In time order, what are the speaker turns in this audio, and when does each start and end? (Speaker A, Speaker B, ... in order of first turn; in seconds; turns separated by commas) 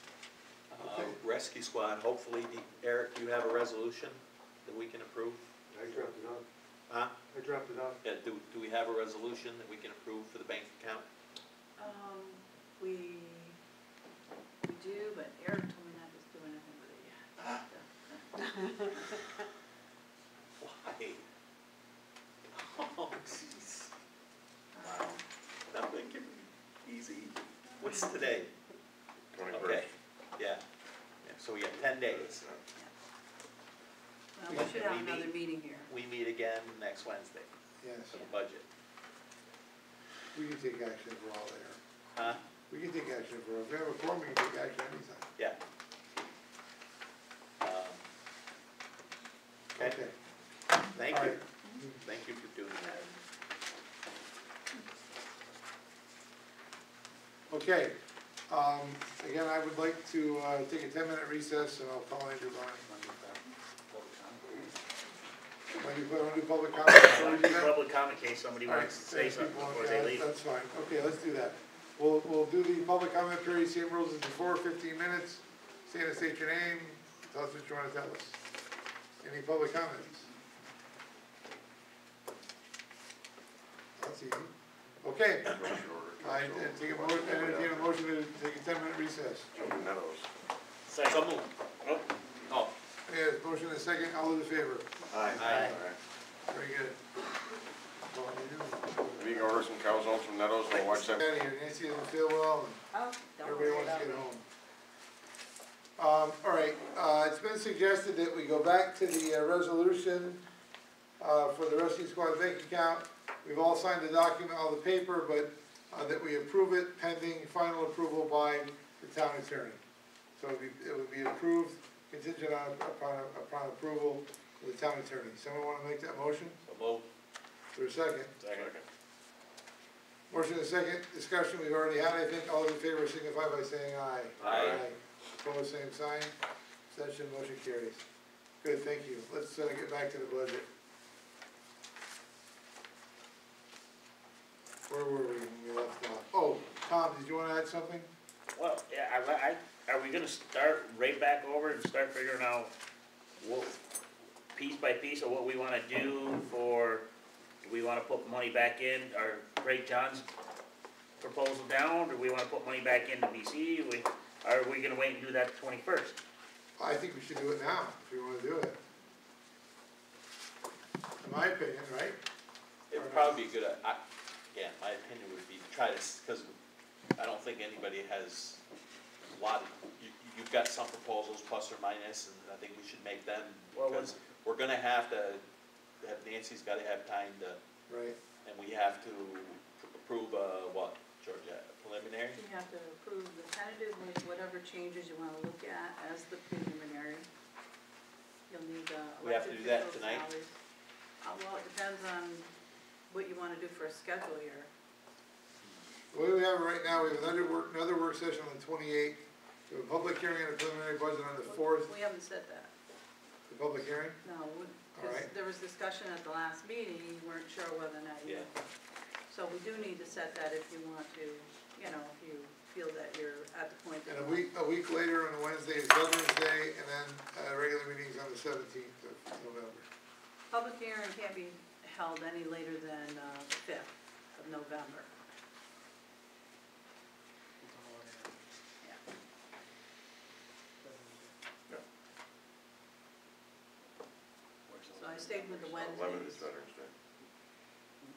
Speaker A: 0.7-5.4, Speaker B: 0.8-1.2, Speaker C: 5.7-6.4, Speaker A: 6.9-7.1, Speaker C: 7.3-8.0, Speaker A: 8.0-11.1, Speaker D: 11.8-13.6, Speaker D: 14.6-19.2, Speaker A: 20.6-21.2, Speaker A: 22.5-23.9, Speaker D: 24.7-25.2, Speaker A: 24.8-25.1, Speaker A: 25.7-28.5, Speaker E: 29.3-29.9, Speaker A: 29.5-30.6, Speaker A: 31.2-32.5, Speaker E: 32.1-32.6, Speaker D: 34.4-35.9, Speaker A: 34.5-37.5, Speaker B: 37.8-38.1, Speaker A: 38.1-38.6, Speaker B: 40.3-41.8, Speaker A: 42.2-42.4, Speaker B: 42.7-45.3, Speaker A: 47.6-48.0, Speaker B: 49.8-50.1, Speaker A: 51.0-53.1, Speaker B: 51.1-51.4, Speaker B: 57.5-58.0, Speaker B: 58.5-62.9, Speaker F: 62.9-63.4, Speaker F: 63.9-64.4, Speaker B: 65.8-67.8, Speaker F: 66.9-70.3, Speaker B: 68.7-78.4, Speaker B: 79.2-80.3, Speaker B: 84.0-85.7, Speaker E: 85.5-87.9, Speaker B: 86.2-89.5, Speaker E: 89.5-90.3, Speaker F: 90.9-91.3, Speaker A: 91.1-91.5, Speaker B: 93.1-95.0, Speaker E: 95.2-96.0, Speaker A: 95.3-95.7, Speaker F: 95.5-95.8, Speaker B: 96.5-97.0, Speaker B: 98.1-99.7, Speaker E: 99.2-101.2, Speaker B: 101.0-102.8, Speaker D: 102.9-104.3, Speaker B: 103.4-104.4, Speaker B: 106.0-110.4, Speaker B: 111.2-119.8, Speaker B: 120.4-126.6, Speaker A: 126.7-127.1, Speaker B: 127.8-128.3, Speaker E: 128.5-128.8, Speaker B: 130.3-136.3, Speaker A: 134.4-134.8, Speaker B: 136.9-138.0, Speaker B: 138.6-140.7, Speaker B: 144.9-148.1, Speaker F: 148.6-152.7, Speaker F: 153.4-153.8, Speaker F: 154.6-157.1, Speaker F: 157.6-160.2, Speaker F: 161.2-166.2, Speaker B: 166.8-168.8, Speaker B: 171.2-172.2, Speaker A: 172.9-174.0, Speaker B: 172.9-173.4, Speaker A: 174.5-176.5, Speaker A: 177.2-178.6, Speaker A: 179.3-185.4, Speaker F: 183.7-184.2, Speaker A: 186.0-187.6, Speaker B: 187.9-188.2, Speaker A: 188.4-192.4, Speaker D: 192.3-197.3, Speaker D: 198.5-200.6, Speaker A: 199.2-200.3, Speaker D: 201.2-202.5, Speaker D: 203.1-204.7, Speaker B: 206.1-211.9, Speaker D: 211.4-212.7, Speaker B: 213.5-214.2, Speaker D: 214.2-218.6, Speaker B: 214.9-215.3, Speaker D: 219.3-224.5, Speaker B: 224.1-229.8, Speaker D: 230.5-235.1, Speaker C: 237.6-238.3, Speaker C: 240.8-241.3, Speaker D: 244.9-246.5, Speaker E: 245.7-246.9